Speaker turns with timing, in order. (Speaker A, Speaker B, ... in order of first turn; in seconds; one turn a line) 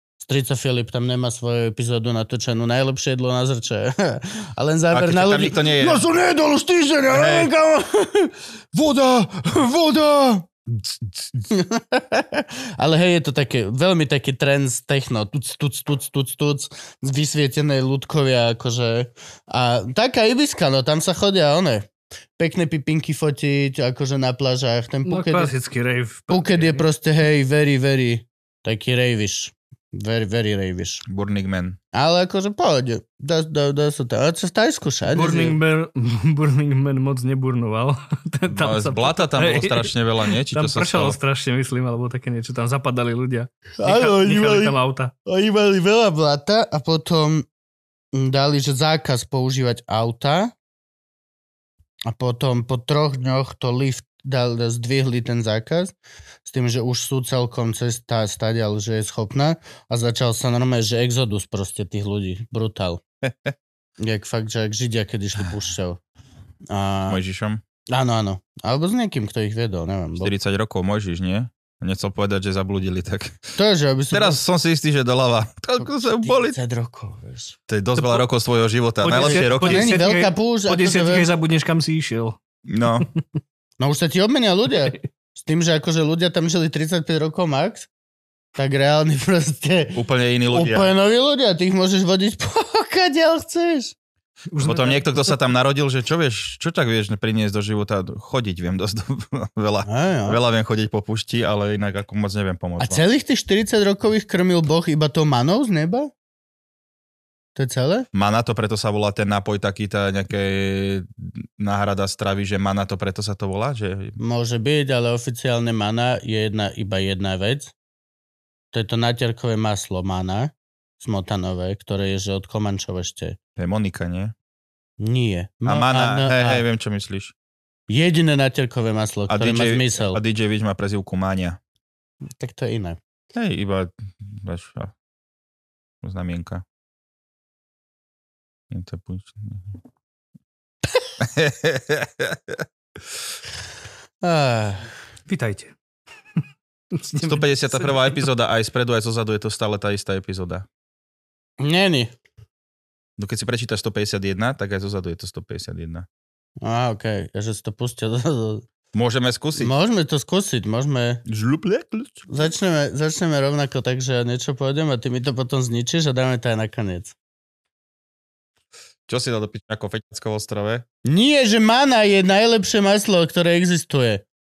Speaker A: 0.2-25.5
Speaker B: 4.9-6.0
Speaker B: 7.1-7.5
Speaker C: 25.1-26.9
Speaker A: 26.3-31.0
Speaker B: 31.1-31.8
Speaker A: 31.9-35.6
Speaker C: 35.1-45.1
Speaker B: 38.5-41.2
Speaker A: 43.8-47.5
Speaker A: 48.1-50.5
Speaker A: 52.1-55.9
Speaker A: 56.5-63.0
Speaker B: 63.2-63.5
Speaker A: 64.0-66.0
Speaker A: 66.7-67.2
Speaker B: 67.1-67.6
Speaker A: 67.9-70.3
Speaker B: 70.2-73.4
Speaker A: 73.6-74.4
Speaker B: 74.1-76.6
Speaker A: 75.8-77.6
Speaker B: 77.7-80.0
Speaker C: 78.0-78.2
Speaker C: 79.0-82.4
Speaker A: 79.1-81.3
Speaker B: 82.7-83.1
Speaker A: 83.8-87.9
Speaker A: 88.6-93.9
Speaker B: 90.0-90.9
Speaker C: 94.5-95.4
Speaker B: 94.6-103.0
Speaker A: 99.8-100.4
Speaker A: 102.8-106.1
Speaker A: 107.6-108.1
Speaker B: 108.1-114.2
Speaker A: 114.2-117.7
Speaker A: 118.7-123.4
Speaker B: 123.6-124.3
Speaker A: 125.0-126.7
Speaker B: 125.7-127.3
Speaker A: 127.9-130.2
Speaker B: 129.3-131.6
Speaker A: 132.4-133.0
Speaker B: 133.3-134.9
Speaker B: 136.0-136.6
Speaker B: 138.7-139.7
Speaker B: 141.2-142.7
Speaker A: 144.2-144.9
Speaker C: 145.3-145.7
Speaker C: 146.9-147.9
Speaker B: 147.2-150.7
Speaker A: 151.6-152.1
Speaker B: 153.2-156.1
Speaker A: 156.6-158.7
Speaker B: 158.9-159.7
Speaker A: 159.6-161.2
Speaker B: 161.3-162.5
Speaker A: 162.3-167.2
Speaker B: 169.1-170.8
Speaker A: 171.1-174.2